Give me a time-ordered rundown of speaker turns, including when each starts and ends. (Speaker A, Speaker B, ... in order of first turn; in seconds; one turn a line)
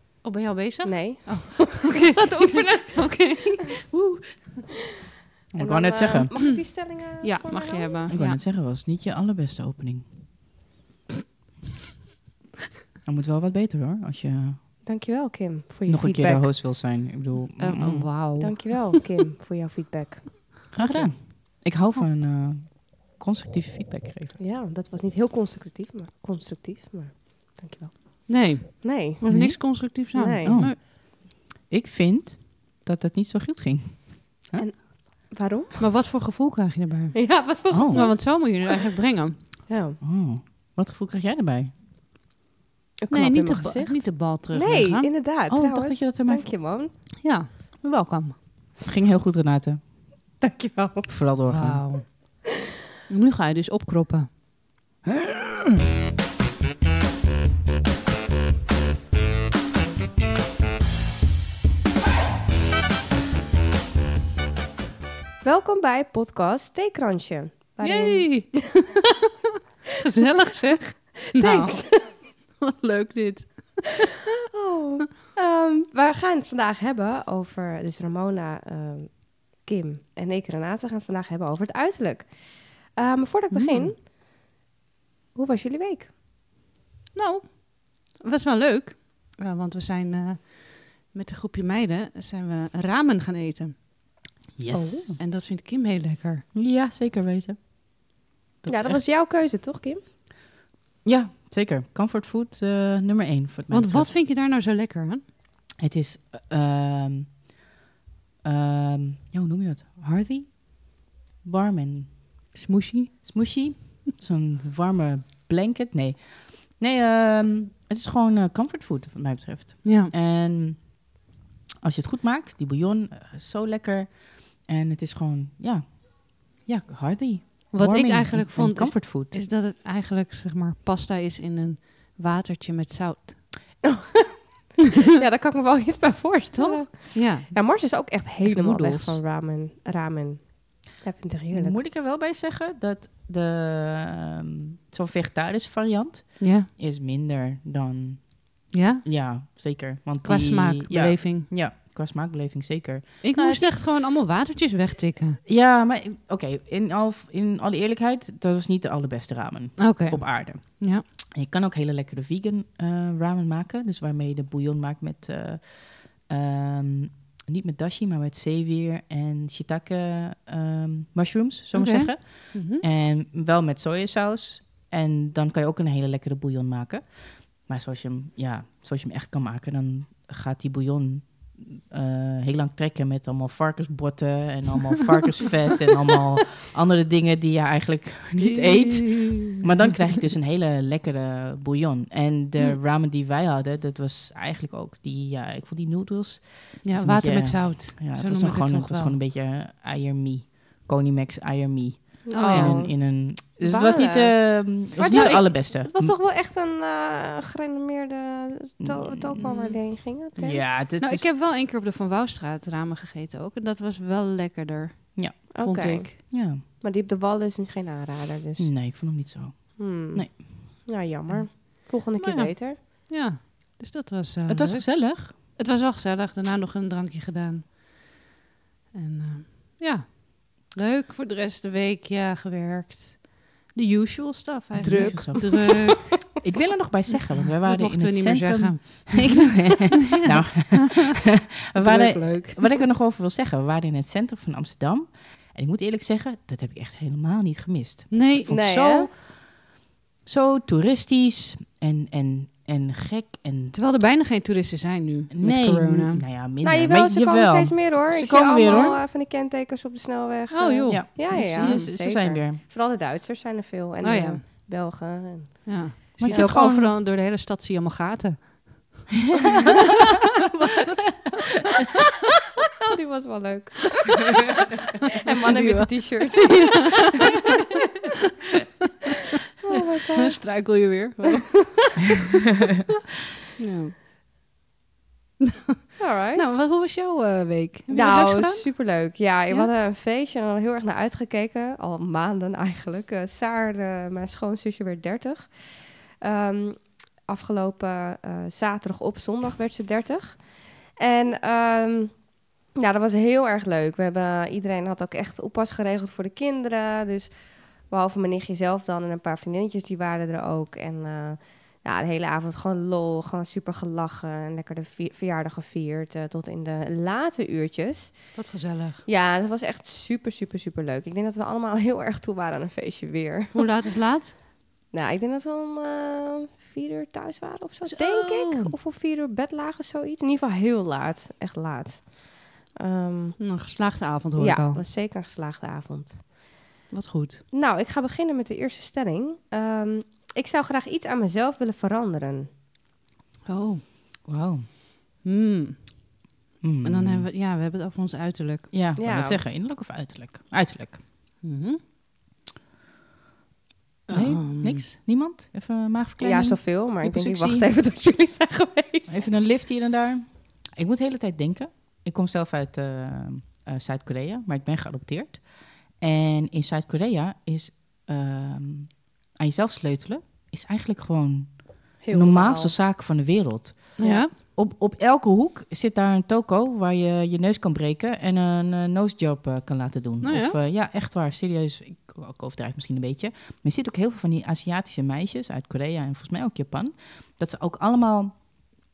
Speaker A: 0.2-3.8
Speaker B: 0.8-3.0
Speaker B: 3.9-4.4
Speaker C: 5.5-6.4
Speaker B: 5.6-8.1
Speaker A: 7.2-8.4
Speaker C: 8.1-10.3
Speaker C: 13.1-14.6
Speaker B: 14.8-16.5
Speaker C: 15.9-18.1
Speaker A: 17.6-19.1
Speaker B: 18.4-20.7
Speaker C: 20.7-24.4
Speaker A: 20.8-21.2
Speaker B: 24.4-29.2
Speaker A: 28.3-30.8
Speaker C: 29.3-29.8
Speaker B: 29.8-30.7
Speaker C: 30.4-34.7
Speaker B: 34.6-35.7
Speaker A: 35.8-39.4
Speaker B: 37.1-38.6
Speaker C: 37.7-38.2
Speaker B: 39.7-40.0
Speaker C: 40.0-41.8
Speaker B: 43.0-46.9
Speaker A: 43.1-45.1
Speaker C: 45.5-46.5
Speaker A: 47.2-48.5
Speaker C: 48.8-49.9
Speaker B: 50.4-51.1
Speaker C: 51.1-51.9
Speaker A: 51.5-52.4
Speaker A: 53.1-54.3
Speaker B: 65.4-68.7
Speaker A: 67.8-68.8
Speaker A: 70.0-74.3
Speaker B: 70.9-72.1
Speaker B: 74.5-84.0
Speaker A: 83.5-83.9
Speaker B: 85.3-86.1
Speaker A: 87.1-93.8
Speaker C: 94.6-95.2
Speaker B: 94.7-95.2
Speaker A: 95.2-96.4
Speaker C: 96.5-97.7
Speaker C: 98.6-99.0
Speaker B: 98.7-100.0
Speaker C: 101.0-104.2
Speaker A: 103.7-105.3
Speaker C: 105.8-107.5
Speaker C: 108.4-112.5
Speaker A: 112.5-113.3
Speaker C: 113.2-121.2
Speaker A: 119.8-120.1
Speaker C: 121.8-129.4
Speaker A: 127.7-133.7
Speaker B: 133.8-134.5
Speaker B: 135.0-141.8
Speaker A: 136.6-137.7
Speaker A: 138.4-139.2
Speaker C: 141.5-153.7
Speaker A: 146.4-146.7
Speaker A: 148.7-149.1
Speaker A: 150.2-151.5
Speaker A: 153.2-155.4
Speaker C: 155.5-206.2
Speaker A: 159.8-161.0
Speaker A: 171.7-172.8
Speaker A: 188.6-189.6
Speaker A: 196.8-199.2
Speaker B: 202.2-210.8
Speaker A: 202.3-202.8
Speaker A: 205.1-205.5
Speaker C: 208.8-209.5
Speaker A: 209.4-209.8
Speaker C: 210.3-211.3
Speaker A: 211.0-216.2
Speaker C: 215.2-215.5
Speaker B: 215.5-218.7
Speaker C: 216.3-216.6
Speaker C: 218.6-220.9
Speaker B: 219.8-222.8
Speaker A: 222.2-228.3
Speaker C: 224.5-225.4
Speaker A: 228.9-236.2
Speaker C: 234.7-249.6
Speaker B: 234.8-235.6
Speaker A: 237.7-239.7
Speaker A: 240.2-241.0
Speaker A: 241.8-242.7
Speaker A: 248.1-248.6
Speaker B: 248.5-249.1
Speaker C: 250.2-253.8
Speaker A: 253.7-256.3
Speaker C: 255.3-259.0
Speaker B: 256.6-266.5
Speaker A: 260.5-261.9
Speaker C: 260.9-262.6
Speaker A: 264.0-264.4
Speaker A: 265.7-269.0
Speaker C: 266.2-266.9
Speaker B: 272.9-277.6
Speaker A: 275.5-276.8
Speaker B: 279.6-281.7
Speaker A: 280.2-281.8
Speaker A: 283.6-284.0
Speaker A: 285.4-289.7
Speaker B: 286.0-286.5
Speaker B: 287.9-318.5
Speaker A: 318.3-319.1
Speaker B: 319.1-323.6
Speaker A: 323.5-324.4
Speaker B: 324.9-333.4
Speaker A: 327.9-328.7
Speaker A: 333.4-334.8
Speaker B: 334.4-336.5
Speaker A: 336.9-337.4
Speaker B: 337.5-342.5
Speaker A: 343.5-343.8
Speaker C: 344.2-344.7
Speaker A: 345.2-346.3
Speaker C: 346.6-347.3
Speaker A: 346.8-348.7
Speaker C: 348.7-351.0
Speaker B: 349.0-349.4
Speaker A: 351.4-351.8
Speaker A: 354.1-354.9
Speaker C: 354.1-357.7
Speaker B: 356.2-359.3
Speaker C: 359.1-388.6
Speaker B: 372.0-372.8
Speaker A: 374.0-374.3
Speaker B: 374.0-374.3
Speaker A: 380.2-380.6